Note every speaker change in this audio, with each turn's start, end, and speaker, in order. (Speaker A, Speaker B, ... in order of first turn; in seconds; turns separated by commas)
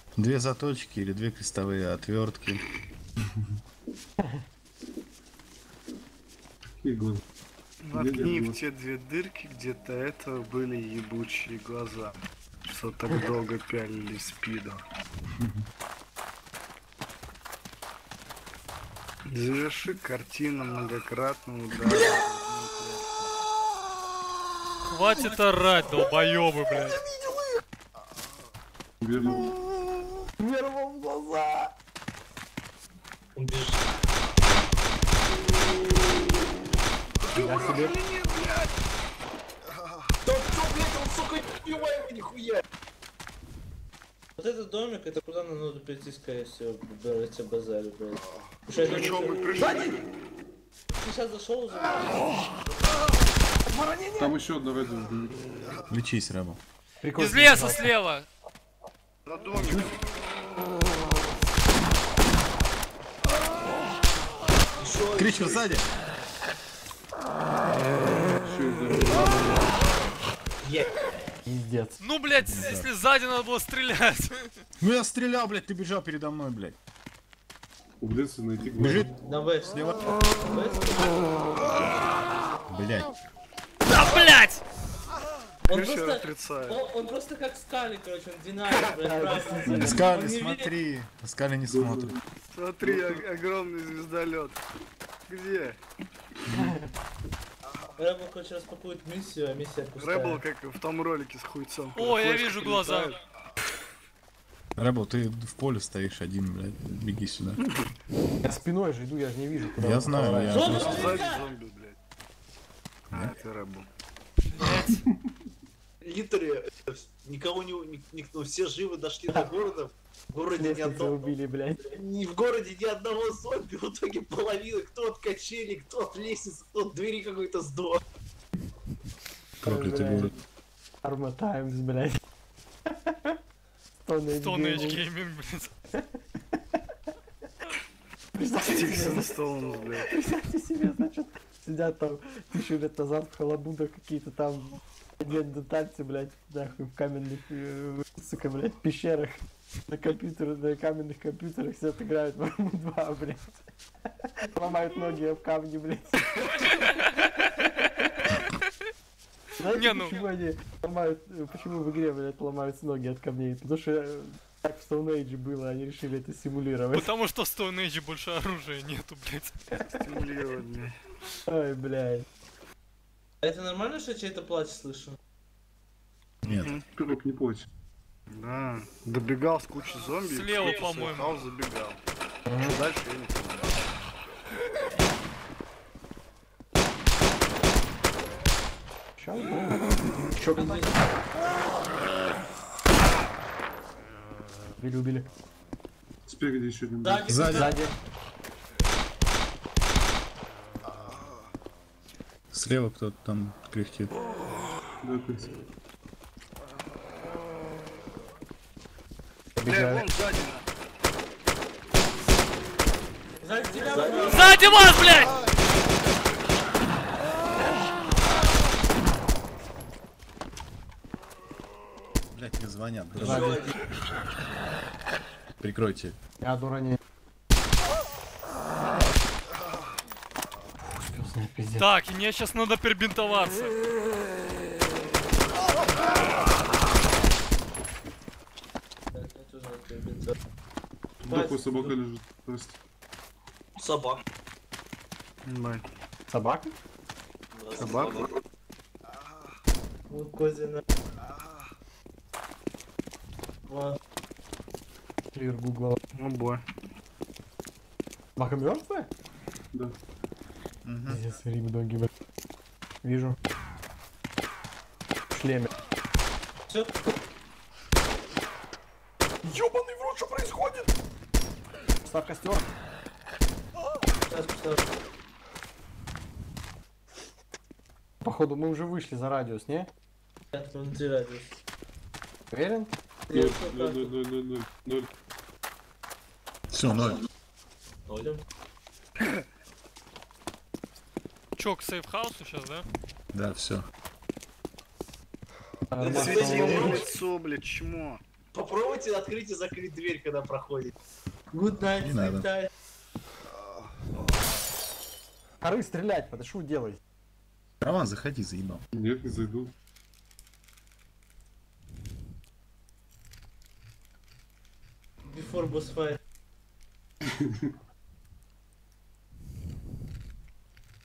Speaker A: 0.2-2.6, Speaker B: 6.8-7.2, Speaker C: 7.8-14.8, Speaker B: 7.9-8.6, Speaker C: 19.3-23.3, Speaker D: 24.9-27.0, Speaker E: 27.1-27.5, Speaker B: 29.0-29.5, Speaker E: 30.4-31.7, Speaker F: 33.4-33.8, Speaker E: 37.2-38.0, Speaker F: 40.2-42.6, Speaker G: 44.4-49.5, Speaker C: 48.7-50.0, Speaker E: 49.5-50.0, Speaker G: 50.9-52.4, Speaker E: 53.7-54.3, Speaker B: 54.2-55.4, Speaker A: 55.9-56.6, Speaker E: 57.0-57.9, Speaker D: 57.1-58.3, Speaker C: 59.2-60.0, Speaker E: 59.6-59.9, Speaker F: 64.8-65.8, Speaker A: 65.2-65.8, Speaker B: 68.4-69.7, Speaker E: 71.5-72.0, Speaker D: 72.0-74.6, Speaker A: 72.4-72.9, Speaker A: 74.8-76.8, Speaker B: 78.0-79.1, Speaker A: 78.8-79.1, Speaker G: 79.2-79.9, Speaker A: 79.7-80.0, Speaker G: 80.4-81.2, Speaker A: 82.7-83.1, Speaker D: 83.9-84.6, Speaker G: 85.7-90.7, Speaker C: 85.7-86.8, Speaker E: 89.0-90.0, Speaker A: 89.7-92.2, Speaker B: 91.7-92.2, Speaker C: 92.5-94.6, Speaker B: 92.8-93.2, Speaker C: 95.3-95.8, Speaker A: 96.5-96.8, Speaker E: 96.6-96.9, Speaker G: 98.0-100.4, Speaker C: 100.0-103.2, Speaker D: 101.9-103.2, Speaker A: 104.8-107.6, Speaker E: 108.4-110.7, Speaker A: 109.8-111.2, Speaker G: 110.5-111.5, Speaker C: 110.5-112.0, Speaker C: 113.1-113.9, Speaker D: 114.6-115.0, Speaker F: 116.0-121.3, Speaker E: 120.4-122.0, Speaker F: 121.9-128.0, Speaker A: 129.6-130.3, Speaker E: 129.6-130.3, Speaker E: 131.0-132.2, Speaker E: 133.1-133.3, Speaker E: 134.1-135.0, Speaker D: 134.3-135.7, Speaker E: 138.3-139.4, Speaker C: 138.7-140.2, Speaker E: 139.9-153.6, Speaker E: 154.2-156.7, Speaker E: 159.6-167.1, Speaker D: 159.7-160.2, Speaker D: 166.9-169.5, Speaker C: 169.9-171.0, Speaker E: 171.5-172.3, Speaker G: 173.4-175.2, Speaker A: 176.4-176.7, Speaker C: 176.5-176.9, Speaker B: 176.9-177.7, Speaker C: 178.3-183.7, Speaker D: 180.2-181.4, Speaker E: 182.5-182.8, Speaker E: 189.2-191.0, Speaker G: 190.4-191.0, Speaker E: 194.8-195.3, Speaker B: 196.3-197.6, Speaker G: 197.0-197.9, Speaker A: 197.3-197.8, Speaker E: 197.5-197.9, Speaker A: 202.5-204.2, Speaker B: 205.0-205.6, Speaker E: 209.6-210.1, Speaker C: 209.6-210.7, Speaker G: 213.4-214.5, Speaker F: 214.0-214.5, Speaker D: 214.2-215.4, Speaker A: 222.3-223.7, Speaker E: 223.2-223.7, Speaker F: 223.2-223.7, Speaker A: 225.6-226.2, Speaker E: 226.4-227.0, Speaker E: 230.8-231.9, Speaker D: 231.8-233.8, Speaker G: 239.1-240.3, Speaker B: 241.2-242.8, Speaker G: 241.3-241.9, Speaker F: 243.8-244.2, Speaker C: 245.4-245.9, Speaker E: 246.3-246.7, Speaker F: 247.6-248.3, Speaker C: 247.7-248.3, Speaker G: 250.1-250.8, Speaker G: 253.7-254.0, Speaker E: 255.3-256.0, Speaker C: 256.1-256.6, Speaker E: 258.4-259.1, Speaker A: 260.9-261.2, Speaker E: 261.1-262.1, Speaker E: 263.0-263.4, Speaker E: 265.3-265.7, Speaker G: 266.7-267.0, Speaker E: 269.4-270.9, Speaker E: 272.1-272.6, Speaker G: 274.3-274.8, Speaker E: 278.2-279.9, Speaker G: 280.5-281.6, Speaker E: 282.5-282.9, Speaker G: 283.3-284.1, Speaker B: 283.3-285.1, Speaker A: 286.7-287.2, Speaker G: 288.2-288.4, Speaker D: 291.6-292.9, Speaker A: 293.3-293.9, Speaker E: 295.9-297.0, Speaker F: 296.0-297.1, Speaker C: 296.0-298.2, Speaker F: 298.5-300.9, Speaker G: 301.5-302.7, Speaker A: 302.0-302.5, Speaker E: 305.6-307.0, Speaker A: 307.8-308.8, Speaker B: 308.9-309.7, Speaker G: 315.3-316.2, Speaker B: 317.3-317.7